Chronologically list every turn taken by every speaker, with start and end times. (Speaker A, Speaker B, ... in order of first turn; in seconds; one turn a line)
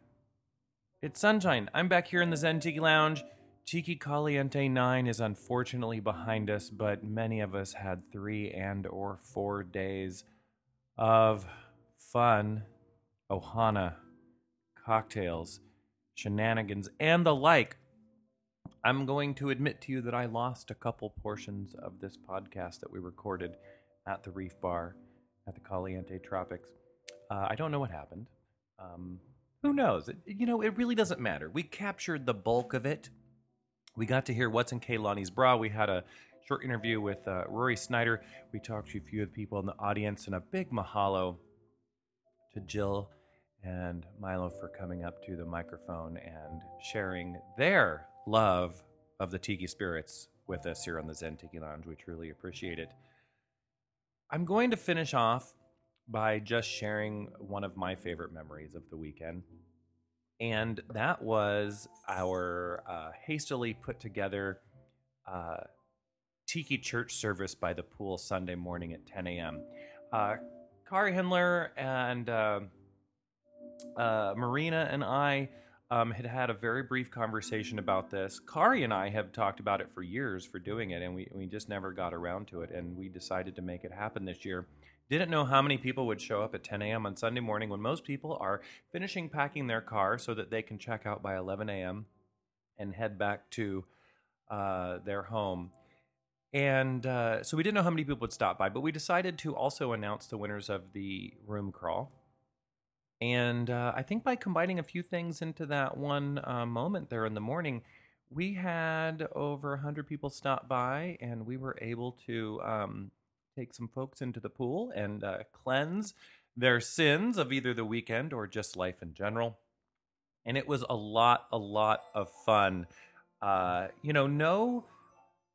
Speaker A: 1.0-10.2
Speaker A: 11.0-12.7
Speaker A: 13.3-14.0
Speaker A: 14.8-15.6
Speaker A: 16.1-17.8
Speaker A: 18.8-26.7
Speaker A: 27.3-33.1
Speaker A: 34.0-41.4
Speaker A: 42.5-52.9
Speaker A: 54.3-55.5
Speaker A: 56.1-59.4
Speaker A: 60.4-64.6
Speaker A: 65.3-65.6
Speaker A: 66.5-72.7
Speaker A: 74.0-92.1
Speaker A: 92.8-93.8
Speaker A: 94.5-95.7
Speaker A: 96.5-102.1
Speaker A: 103.2-119.6
Speaker A: 120.5-122.9
Speaker A: 123.4-124.9